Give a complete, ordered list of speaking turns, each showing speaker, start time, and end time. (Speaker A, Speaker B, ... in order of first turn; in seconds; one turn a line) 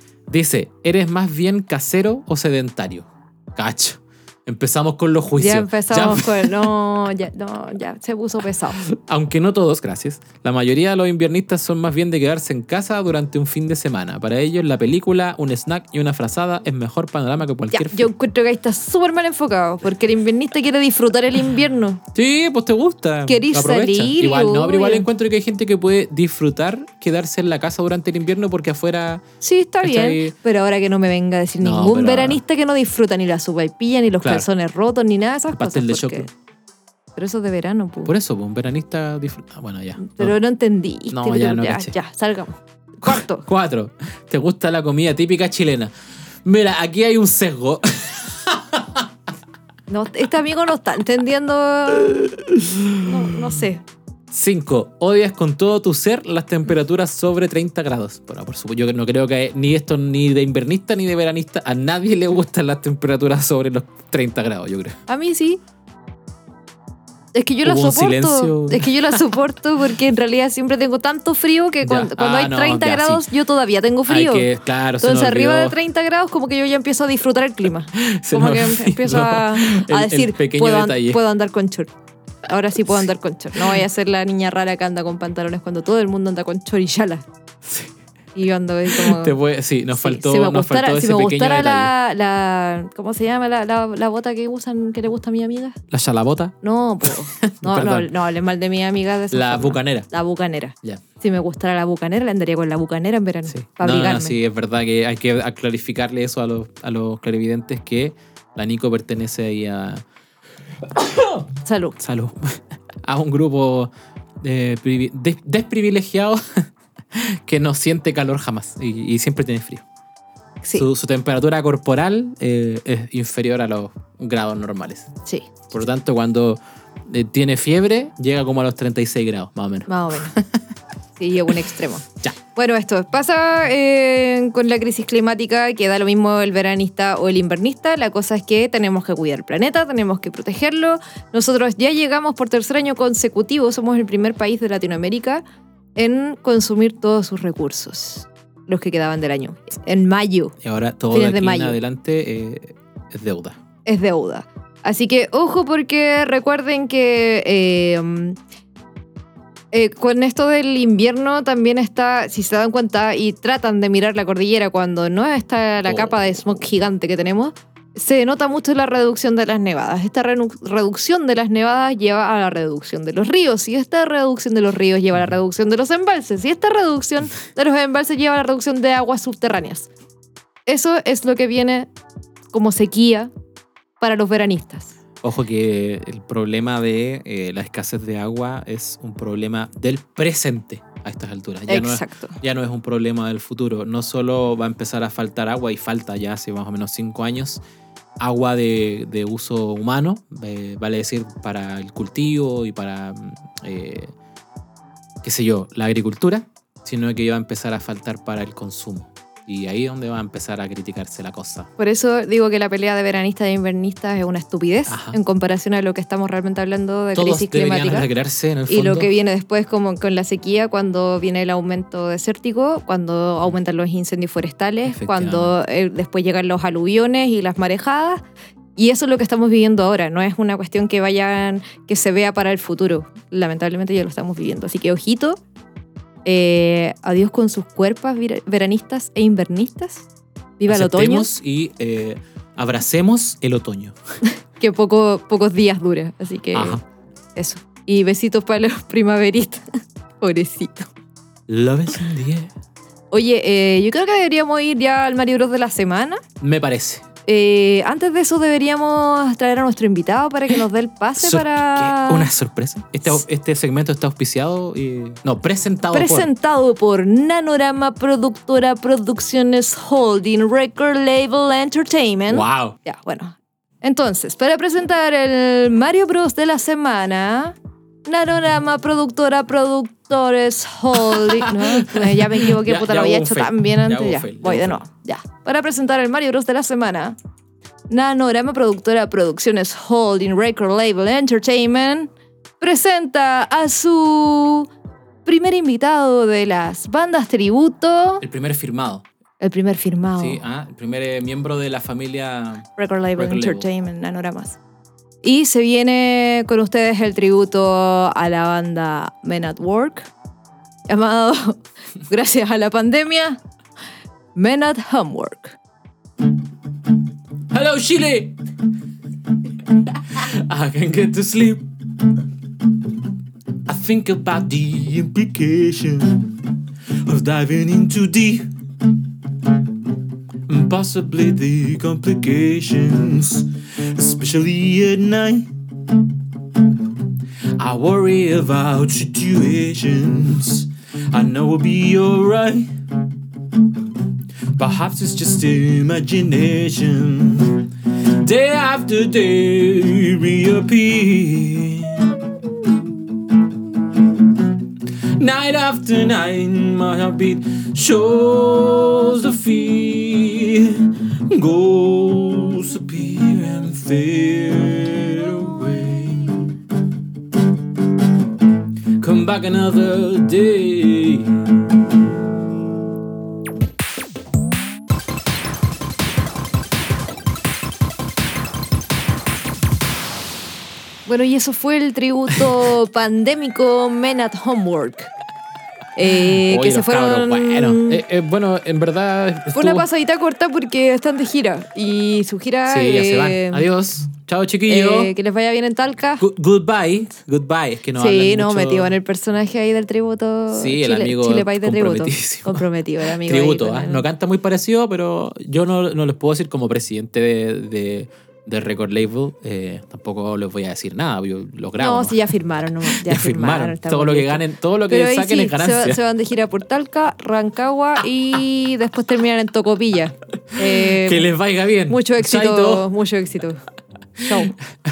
Speaker A: 0.3-6.7
Speaker B: 5.4-8.8
Speaker A: 8.7-18.1
Speaker B: 17.7-22.0
Speaker A: 22.1-29.2
Speaker B: 23.3-25.1
Speaker B: 29.4-36.3
Speaker A: 29.8-30.3
Speaker A: 31.6-32.4
Speaker A: 34.2-34.5
Speaker A: 35.5-36.3
Speaker B: 37.1-38.1
Speaker A: 38.0-40.4
Speaker B: 40.0-43.5
Speaker A: 41.1-42.0
Speaker A: 43.0-45.9
Speaker A: 46.4-49.1
Speaker B: 49.9-52.3
Speaker A: 52.1-53.3
Speaker B: 53.0-53.8
Speaker A: 54.3-65.0
Speaker B: 65.1-65.6
Speaker B: 67.3-74.5
Speaker A: 67.6-69.3
Speaker A: 71.8-73.2
Speaker A: 74.1-75.8
Speaker B: 75.0-81.9
Speaker A: 77.9-81.2
Speaker B: 82.4-87.2
Speaker A: 83.5-83.8
Speaker A: 87.6-87.9
Speaker B: 88.3-89.3
Speaker A: 88.9-91.9
Speaker B: 89.9-95.8
Speaker A: 95.9-98.1
Speaker B: 96.6-104.4
Speaker A: 99.3-100.1
Speaker A: 103.5-110.0
Speaker A: 110.9-111.5
Speaker B: 111.6-112.0
Speaker A: 112.0-119.8
Speaker A: 120.7-125.1
Speaker A: 125.7-130.6
Speaker B: 129.9-130.3
Speaker B: 131.2-145.4
Speaker B: 145.9-150.6
Speaker A: 150.6-153.6
Speaker B: 151.1-151.8
Speaker B: 153.8-158.4
Speaker B: 159.7-179.9
Speaker A: 165.8-166.4
Speaker B: 180.7-181.9
Speaker B: 182.5-183.3
Speaker B: 184.0-184.9
Speaker A: 185.2-197.6
Speaker B: 191.7-192.4
Speaker A: 198.2-204.1
Speaker A: 205.2-211.7
Speaker B: 211.8-218.1
Speaker A: 214.9-215.2
Speaker A: 217.1-219.1
Speaker B: 218.7-228.2
Speaker A: 224.9-225.5
Speaker B: 228.8-235.4
Speaker B: 236.2-240.1
Speaker B: 240.6-241.3
Speaker A: 240.7-243.9
Speaker B: 244.6-246.8
Speaker A: 246.5-246.8
Speaker B: 247.3-249.6
Speaker B: 250.2-250.9
Speaker A: 251.5-252.5
Speaker B: 253.1-256.2
Speaker A: 256.4-257.0
Speaker B: 257.2-262.3
Speaker A: 261.2-266.3
Speaker B: 265.9-287.1
Speaker A: 272.3-272.8
Speaker A: 280.9-284.8
Speaker B: 287.9-294.7
Speaker B: 295.2-298.2
Speaker A: 298.2-299.0
Speaker B: 299.4-300.4
Speaker A: 300.1-303.7
Speaker B: 302.8-304.6
Speaker B: 305.2-310.1
Speaker B: 310.9-313.4
Speaker B: 314.3-315.6
Speaker A: 317.5-318.4
Speaker A: 319.6-322.1
Speaker A: 323.6-328.5
Speaker A: 330.5-335.9
Speaker A: 337.5-342.7
Speaker A: 344.5-352.8
Speaker A: 354.0-366.5
Speaker A: 369.0-371.8
Speaker B: 381.1-385.1
Speaker B: 385.9-388.0
Speaker A: 386.1-389.9
Speaker B: 389.5-393.6
Speaker A: 392.7-395.1
Speaker B: 394.6-396.3
Speaker A: 396.2-398.9
Speaker B: 397.9-404.0
Speaker A: 400.5-412.3
Speaker B: 411.8-421.3
Speaker A: 412.9-416.0
Speaker A: 420.6-422.9
Speaker B: 421.9-423.6
Speaker B: 424.2-424.6